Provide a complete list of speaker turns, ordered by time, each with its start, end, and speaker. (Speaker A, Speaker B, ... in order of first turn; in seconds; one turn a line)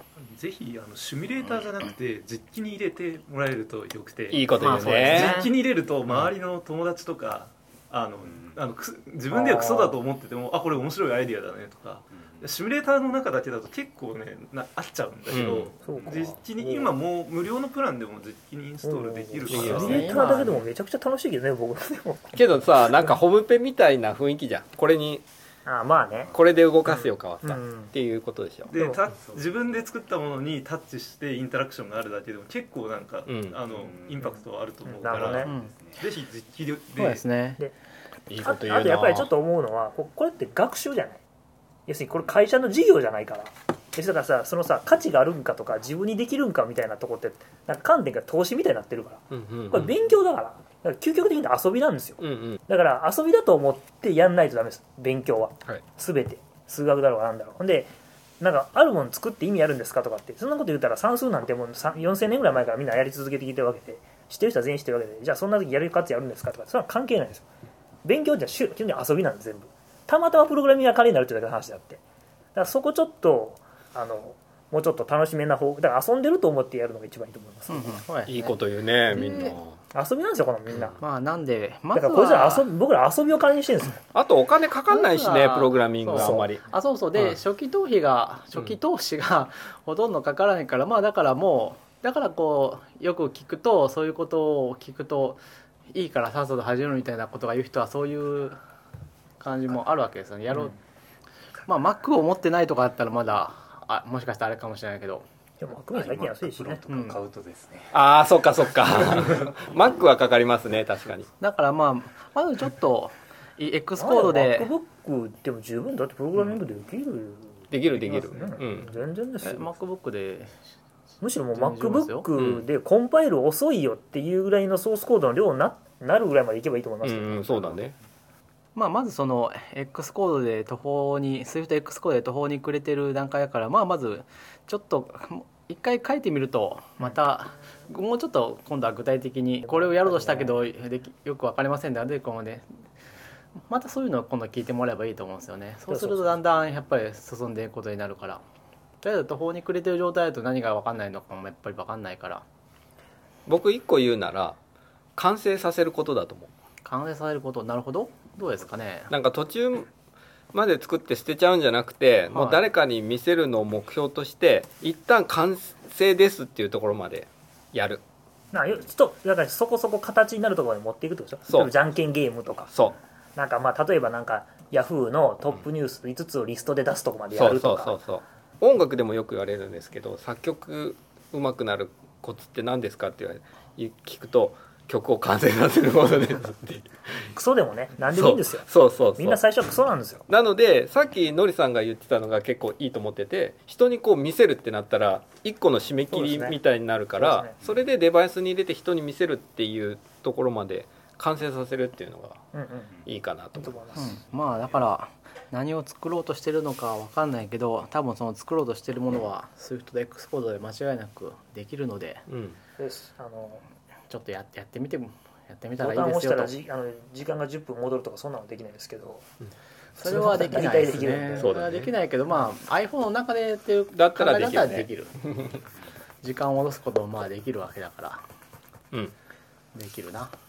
Speaker A: 0.2-20.4
Speaker B: 4.3-5.4
Speaker C: 4.6-5.5
Speaker D: 8.3-8.6
Speaker E: 9.3-9.9
Speaker D: 12.1-12.4
Speaker B: 15.3-15.7
Speaker E: 15.8-16.9
Speaker D: 16.0-16.4
Speaker E: 18.8-22.4
Speaker B: 19.5-20.2
Speaker C: 19.7-20.6
Speaker B: 22.3-25.2
Speaker E: 25.7-26.3
Speaker B: 26.3-28.7
Speaker E: 26.9-27.9
Speaker A: 28.7-37.2
Speaker D: 29.1-29.8
Speaker B: 33.3-33.6
Speaker D: 33.7-34.2
Speaker E: 34.9-35.5
Speaker D: 35.1-36.0
Speaker C: 35.5-35.7
Speaker C: 37.0-37.6
Speaker B: 38.3-39.3
Speaker E: 38.4-41.2
Speaker E: 41.9-67.5
Speaker B: 49.3-49.9
Speaker B: 52.2-52.6
Speaker E: 68.0-72.0
Speaker E: 72.5-78.0
Speaker C: 77.7-78.6
Speaker B: 78.3-79.8
Speaker C: 79.1-79.6
Speaker E: 79.9-81.0
Speaker C: 81.0-82.7
Speaker E: 81.9-84.0
Speaker B: 84.1-86.7
Speaker C: 84.9-98.6
Speaker E: 86.2-86.5
Speaker C: 99.4-100.8
Speaker C: 101.7-105.2
Speaker E: 105.6-106.8
Speaker D: 105.9-107.9
Speaker C: 106.9-107.2
Speaker B: 107.9-111.3
Speaker C: 111.4-114.7
Speaker E: 114.0-119.7
Speaker B: 117.7-118.9
Speaker C: 119.4-120.6
Speaker E: 121.2-127.8
Speaker C: 121.5-122.3
Speaker B: 122.4-122.6
Speaker B: 127.0-128.0
Speaker C: 128.8-142.7
Speaker E: 139.7-140.6
Speaker C: 143.7-148.4
Speaker E: 145.9-146.3
Speaker C: 149.0-152.4
Speaker B: 153.5-154.6
Speaker B: 155.2-156.5
Speaker C: 156.8-159.1
Speaker B: 159.1-159.9
Speaker B: 160.5-168.0
Speaker C: 162.3-162.6
Speaker E: 168.5-172.7
Speaker E: 173.4-178.0
Speaker B: 177.3-187.3
Speaker E: 187.3-188.7
Speaker B: 188.1-189.4
Speaker E: 189.2-190.2
Speaker B: 190.3-202.4
Speaker E: 196.1-196.6
Speaker E: 197.2-197.5
Speaker E: 202.5-202.9
Speaker B: 203.1-203.8
Speaker E: 203.6-204.2
Speaker C: 204.0-212.2
Speaker B: 212.3-212.6
Speaker E: 212.8-213.6
Speaker C: 214.1-216.5
Speaker E: 215.8-219.2
Speaker E: 220.0-221.6
Speaker C: 220.0-225.3
Speaker B: 221.4-221.9
Speaker B: 223.9-225.5
Speaker C: 226.2-228.2
Speaker C: 229.7-230.3